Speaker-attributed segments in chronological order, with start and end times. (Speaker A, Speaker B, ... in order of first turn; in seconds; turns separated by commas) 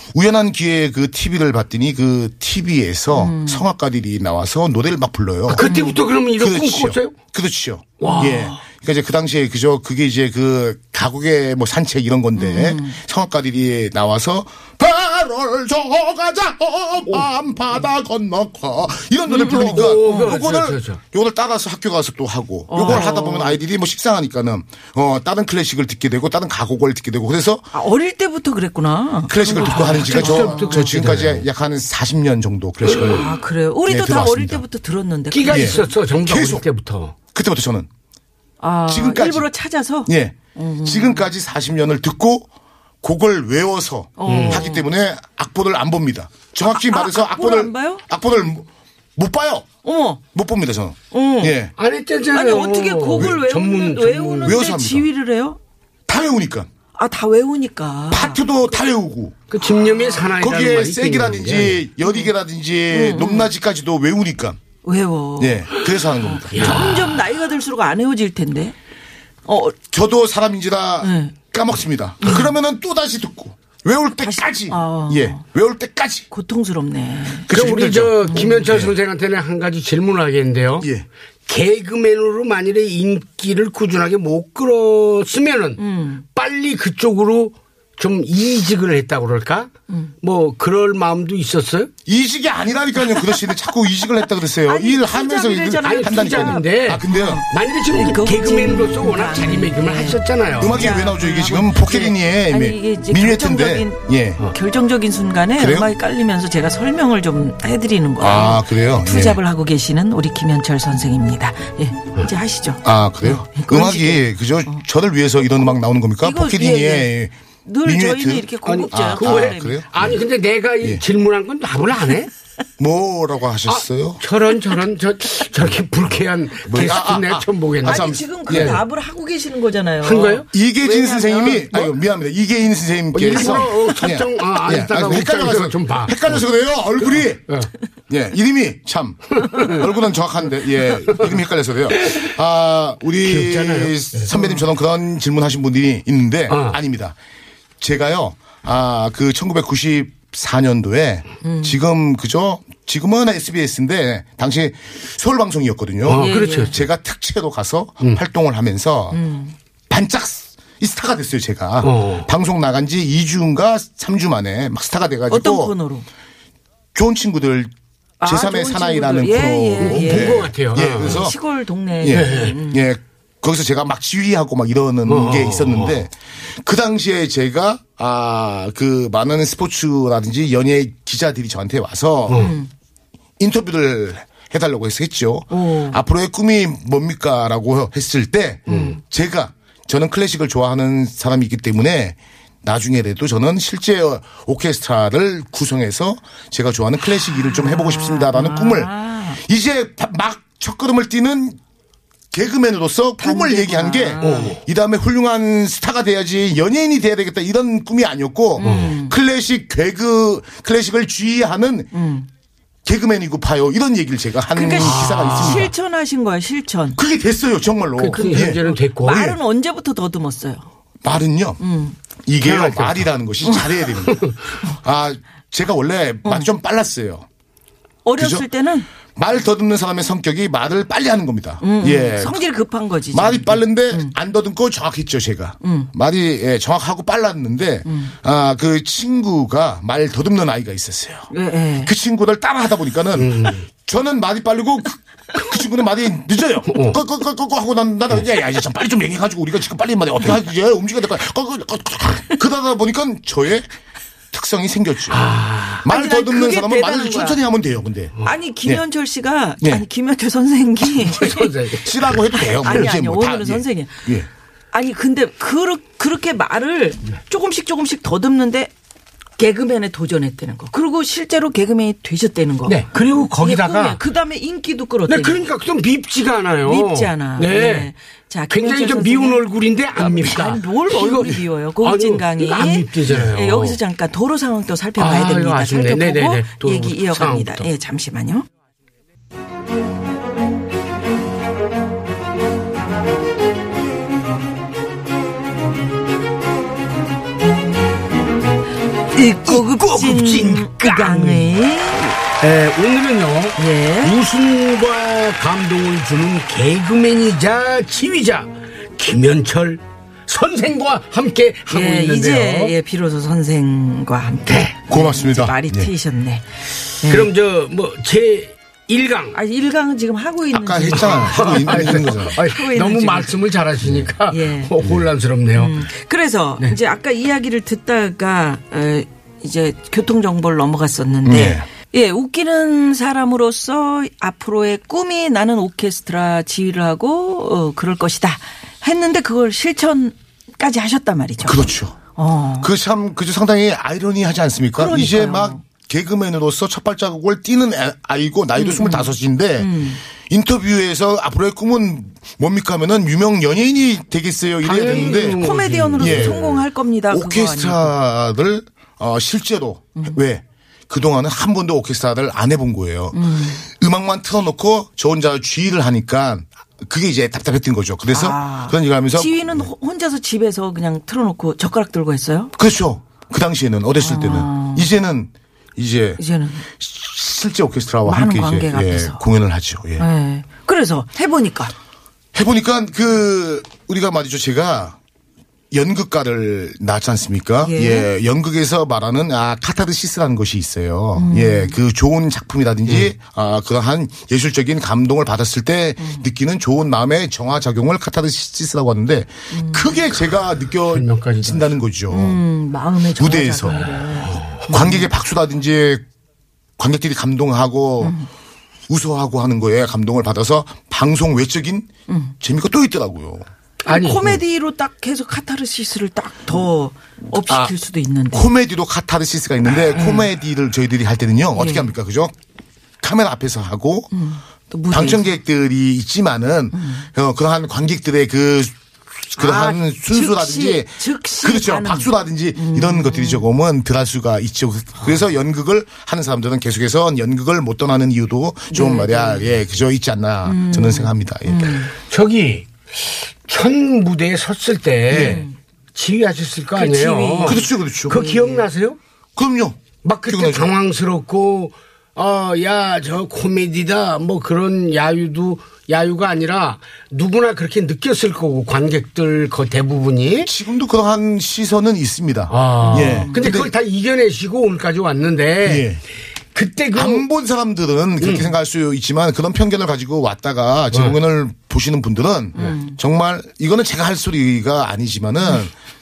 Speaker A: 0.1-5.7, Speaker B: 3.1-3.6, Speaker C: 5.5-7.2, Speaker B: 5.6-6.0, Speaker A: 6.4-27.7, Speaker C: 8.0-8.6, Speaker B: 12.4-13.0, Speaker B: 19.3-20.4, Speaker C: 19.4-21.0, Speaker B: 22.7-23.6, Speaker B: 27.7-31.0, Speaker A: 29.3-33.3, Speaker C: 29.6-31.4, Speaker B: 33.0-35.9, Speaker A: 33.9-34.6, Speaker C: 35.3-37.2, Speaker A: 35.5-36.6, Speaker A: 37.3-37.9, Speaker B: 38.6-41.2, Speaker A: 38.9-39.5, Speaker A: 40.1-42.5, Speaker A: 43.0-49.7, Speaker B: 44.2-44.9, Speaker C: 44.3-44.7, Speaker B: 46.7-48.0, Speaker B: 49.8-50.2, Speaker A: 50.3-51.7, Speaker B: 51.1-51.6, Speaker C: 51.8-54.6, Speaker B: 52.3-55.6, Speaker A: 54.5-55.1, Speaker A: 56.1-56.7, Speaker B: 57.0-58.4, Speaker A: 58.1-59.5, Speaker C: 59.5-61.8, Speaker A: 60.4-64.6, Speaker B: 62.0-62.3, Speaker B: 62.9-63.5, Speaker B: 64.8-68.8, Speaker A: 65.4-67.0, Speaker C: 66.5-67.1, Speaker B: 69.5-69.8, Speaker A: 69.9-76.3, Speaker B: 71.0-71.3, Speaker B: 72.2-72.5, Speaker B: 74.2-75.4, Speaker B: 76.3-77.5, Speaker A: 77.5-78.9, Speaker C: 77.5-80.9, Speaker B: 78.3-78.6, Speaker C: 81.5-85.8, Speaker B: 85.8-86.2, Speaker C: 86.3-89.7, Speaker C: 90.2-91.9, Speaker A: 92.1-97.4, Speaker B: 93.1-93.4, Speaker B: 94.7-104.0, Speaker C: 95.8-100.9, Speaker A: 100.6-104.4, Speaker B: 104.5-114.8, Speaker A: 105.6-105.9, Speaker A: 108.2-109.4, Speaker A: 112.8-120.2, Speaker B: 116.2-117.1, Speaker B: 117.7-119.8, Speaker C: 118.7-122.3, Speaker A: 122.8-124.2, Speaker C: 123.7-128.8, Speaker A: 126.7-128.8, Speaker B: 127.8-131.9, Speaker C: 130.0-130.5, Speaker A: 130.5-137.6, Speaker C: 133.1-136.4, Speaker C: 137.2-137.7, Speaker A: 138.1-147.2, Speaker C: 139.4-139.8, Speaker C: 143.2-144.3, Speaker B: 144.3-144.6, Speaker C: 146.5-146.8, Speaker A: 147.8-159.2, Speaker B: 151.4-151.8, Speaker C: 156.1-156.8, Speaker B: 156.2-156.8, Speaker B: 159.1-159.6, Speaker A: 159.9-165.7, Speaker C: 161.8-162.3, Speaker B: 165.3-166.1, Speaker A: 166.9-167.7, Speaker B: 168.2-172.8, Speaker A: 168.2-171.4, Speaker C: 169.8-171.3, Speaker A: 172.0-182.5, Speaker C: 172.1-172.6, Speaker C: 175.1-176.0, Speaker C: 182.3-182.5, Speaker B: 182.3-182.7, Speaker A: 183.4-201.6, Speaker B: 185.5-186.0, Speaker C: 188.7-189.0, Speaker B: 188.7-188.9, Speaker B: 197.4-199.4, Speaker A: 202.3-211.9, Speaker B: 203.2-204.6, Speaker C: 204.2-204.6, Speaker B: 208.6-209.2, Speaker C: 208.6-209.0, Speaker B: 211.9-212.3, Speaker A: 212.8-215.7, Speaker B: 214.5-217.0, Speaker C: 214.8-215.7, Speaker A: 217.0-218.6, Speaker C: 218.0-219.3, Speaker B: 218.1-220.7, Speaker A: 221.0-221.6, Speaker B: 221.6-222.0, Speaker A: 222.3-227.3, Speaker C: 222.4-223.1, Speaker C: 224.1-224.4, Speaker B: 228.1-228.9, Speaker A: 228.2-228.4, Speaker A: 229.2-232.4, Speaker B: 231.6-234.1, Speaker A: 233.1-253.7, Speaker B: 235.6-235.9, Speaker B: 237.9-238.1, Speaker B: 241.3-241.9, Speaker C: 243.2-243.7, Speaker C: 246.7-247.0, Speaker A: 254.3-255.2, Speaker C: 255.1-255.9, Speaker A: 255.8-258.1, Speaker B: 255.9-257.4, Speaker B: 258.2-261.5, Speaker C: 260.9-262.2, Speaker A: 261.8-264.3, Speaker B: 262.3-264.1, Speaker B: 264.7-268.7, Speaker B: 269.4-275.4, Speaker C: 272.7-274.0, Speaker C: 275.1-277.9, Speaker B: 276.6-279.4, Speaker C: 278.5-283.8, Speaker B: 280.0-288.5, Speaker C: 285.0-287.7, Speaker B: 299.1-302.2, Speaker C: 299.5-301.6, Speaker C: 302.4-312.7, Speaker B: 303.6-304.2, Speaker B: 311.7-316.5, Speaker C: 314.5-314.8, Speaker A: 314.9-315.9, Speaker B: 317.0-317.3, Speaker C: 317.0-319.4, Speaker B: 319.3-323.4, Speaker A: 320.5-322.4, Speaker C: 320.9-325.8, Speaker A: 323.8-324.1, Speaker B: 324.3-324.7, Speaker B: 325.6-342.7, Speaker A: 331.2-331.7, Speaker A: 341.4-342.0, Speaker A: 342.6-369.7, Speaker B: 344.8-345.6, Speaker B: 348.6-350.0, Speaker C: 354.6-356.6, Speaker B: 354.8-357.9, Speaker B: 363.1-363.6, Speaker B: 368.1-372.5, Speaker A: 372.6-380.1, Speaker B: 374.0-374.9, Speaker B: 376.2-376.7, Speaker B: 378.1-379.2, Speaker B: 380.0-381.7, Speaker A: 382.3-385.0, Speaker A: 385.7-402.4, Speaker B: 387.6-388.1, Speaker B: 391.2-391.8, Speaker B: 399.5-400.0, Speaker C: 400.9-401.8, Speaker B: 402.1-405.0, Speaker A: 403.2-403.9, Speaker C: 404.2-404.7, Speaker A: 404.7-406.0, Speaker A: 406.8-408.1, Speaker B: 408.0-408.3, Speaker A: 408.9-413.5, Speaker B: 412.1-412.3, Speaker C: 413.9-414.3, Speaker B: 413.9-418.5, Speaker A: 417.5-417.7, Speaker A: 418.3-422.3, Speaker B: 419.9-420.3, Speaker B: 421.6-421.9, Speaker A: 423.0-424.1, Speaker B: 424.1-425.2, Speaker A: 424.9-441.8, Speaker B: 426.7-427.1, Speaker B: 429.4-433.4, Speaker B: 438.7-439.5, Speaker B: 440.4-441.9, Speaker C: 441.9-449.0, Speaker B: 445.1-445.5, Speaker A: 445.1-445.4, Speaker B: 446.8-448.7, Speaker A: 447.4-448.2, Speaker A: 449.4-450.7, Speaker C: 450.0-460.5, Speaker A: 460.4-463.7, Speaker C: 462.5-465.9, Speaker B: 462.8-463.5, Speaker A: 465.6-466.0, Speaker C: 466.5-467.3, Speaker A: 466.9-475.7, Speaker C: 468.2-468.5, Speaker B: 472.6-473.0